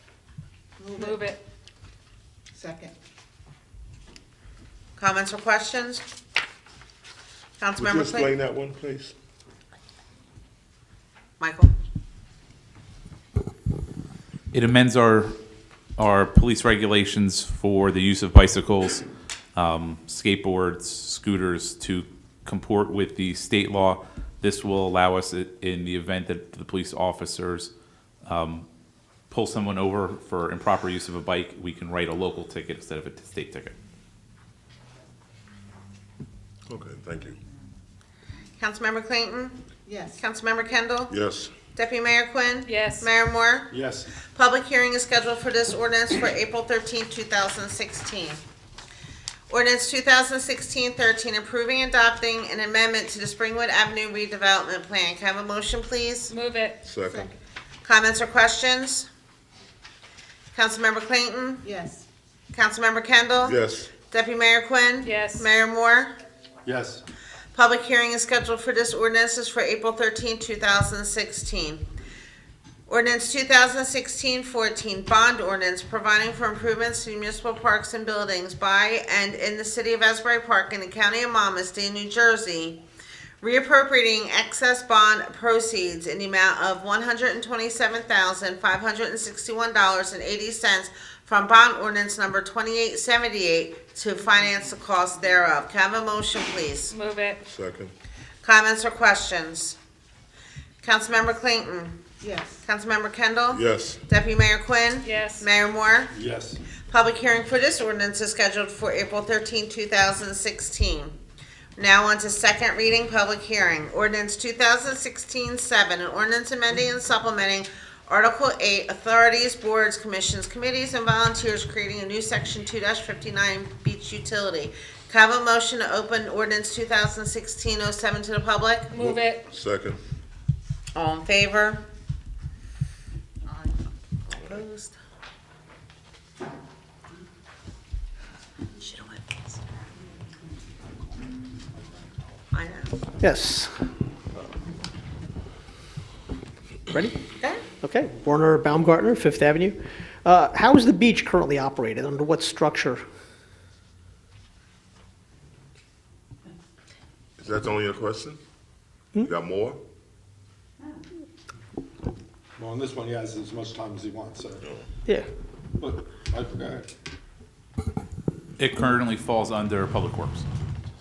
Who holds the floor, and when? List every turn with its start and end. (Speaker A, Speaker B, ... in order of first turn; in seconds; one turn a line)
Speaker A: 0.8-1.3
Speaker B: 0.9-1.4
Speaker A: 2.5-2.9
Speaker C: 5.0-6.0
Speaker C: 7.6-8.3
Speaker D: 7.8-9.1
Speaker C: 11.4-11.7
Speaker E: 14.5-15.4
Speaker E: 16.0-27.7
Speaker E: 28.2-28.7
Speaker E: 29.3-33.7
Speaker D: 36.7-37.4
Speaker C: 38.6-39.6
Speaker A: 39.9-40.2
Speaker C: 40.2-41.1
Speaker D: 41.1-41.5
Speaker C: 41.7-43.7
Speaker B: 42.6-43.1
Speaker F: 43.7-44.1
Speaker C: 44.3-48.4
Speaker C: 49.5-56.3
Speaker B: 56.3-56.8
Speaker D: 56.8-57.3
Speaker A: 57.1-57.3
Speaker C: 57.8-59.1
Speaker C: 60.5-61.6
Speaker A: 61.6-62.0
Speaker C: 62.5-66.1
Speaker D: 63.4-63.9
Speaker B: 65.0-65.5
Speaker F: 66.6-67.0
Speaker C: 67.5-71.8
Speaker C: 72.9-82.8
Speaker C: 83.4-96.9
Speaker B: 96.9-97.4
Speaker D: 97.4-97.9
Speaker C: 98.4-99.8
Speaker C: 100.8-102.0
Speaker A: 102.2-102.6
Speaker C: 102.6-106.1
Speaker D: 103.5-104.0
Speaker B: 105.0-105.5
Speaker F: 106.1-106.6
Speaker C: 106.9-111.2
Speaker C: 111.8-128.9
Speaker B: 128.9-129.4
Speaker D: 128.9-130.0
Speaker C: 130.9-131.8
Speaker A: 133.4-133.8
Speaker C: 134.3-134.9
Speaker C: 138.7-139.6
Speaker C: 142.5-142.9
Speaker G: 143.2-143.7
Speaker G: 146.9-153.0
Speaker D: 157.4-158.4
Speaker D: 159.2-159.8
Speaker F: 162.6-164.6
Speaker F: 165.8-166.9
Speaker E: 168.6-170.4